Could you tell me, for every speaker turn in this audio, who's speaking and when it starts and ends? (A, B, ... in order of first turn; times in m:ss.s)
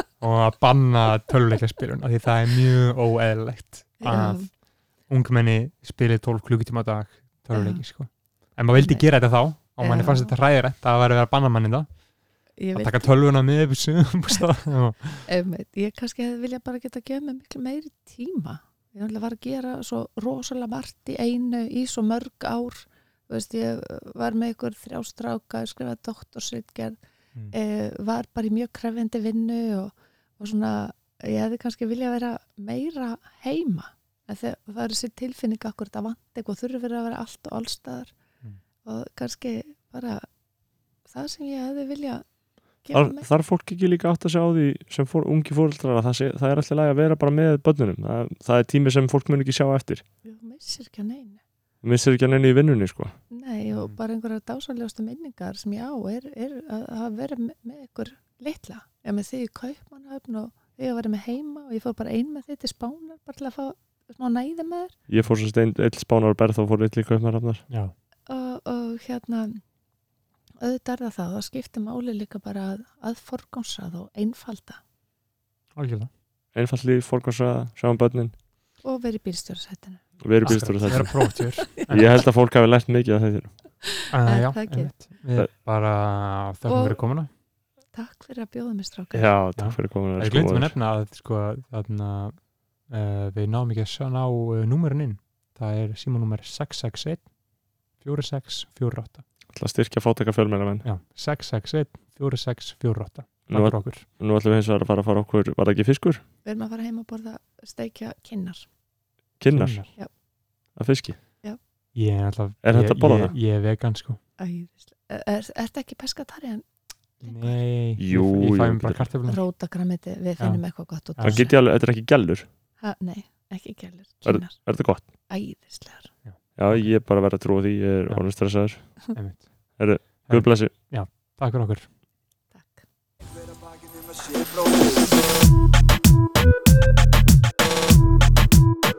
0:00.2-0:04.5 A
0:04.0-0:04.5 B
0:05.1-0:12.0 A
0:07.5-0:07.8 B
0:08.8-0:09.0 B
0:09.8-0:10.3 B
0:12.6-0:13.1 B
0:12.7-0:15.3 A
0:15.2-0:27.0 B
0:27.5-0:38.1 B
0:38.8-0:40.3 B
0:41.1-0:42.2 B
0:42.8-0:43.3 B
0:42.9-0:50.0 C
0:50.2-0:51.4 B
0:51.8-0:53.1 C
0:53.3-1:05.0 B
0:53.7-0:54.0 A
1:05.1-1:07.6 C
1:08.3-1:09.6 B
1:10.6-1:14.8 B
1:15.8-1:16.1 A
1:16.5-1:18.3 C
1:18.8-1:20.0 B
1:20.2-1:23.5 C
1:20.4-1:22.1 A
1:20.9-1:21.8 B
1:24.1-1:24.9 B
1:24.1-1:27.3 A
1:26.6-1:27.0 B
1:27.9-1:29.3 B
1:29.1-1:30.7 C
1:29.6-1:37.3 A
1:38.0-1:39.2 A
1:39.5-1:40.8 C
1:40.8-1:44.0 A
1:43.5-1:46.2 C
1:46.4-1:48.6 B
1:49.4-1:49.9 C
1:49.5-1:49.9 A
1:50.8-1:51.2 C
1:51.9-1:54.2 A
1:52.6-1:53.3 C
1:54.4-1:56.6 B
1:57.2-1:57.6 B
1:57.2-1:59.4 A
1:58.0-1:59.0 C
1:59.2-2:01.6 B
2:00.4-2:00.6 A
2:01.2-2:01.4 A
2:01.2-2:02.4 C
2:02.8-2:04.7 B
2:04.2-2:05.0 C
2:05.3-2:06.1 B
2:06.2-2:07.0 A
2:06.6-2:09.0 C
2:09.1-2:11.9 A
2:09.8-2:10.7 C
2:12.5-2:12.8 B
2:13.2-2:15.3 D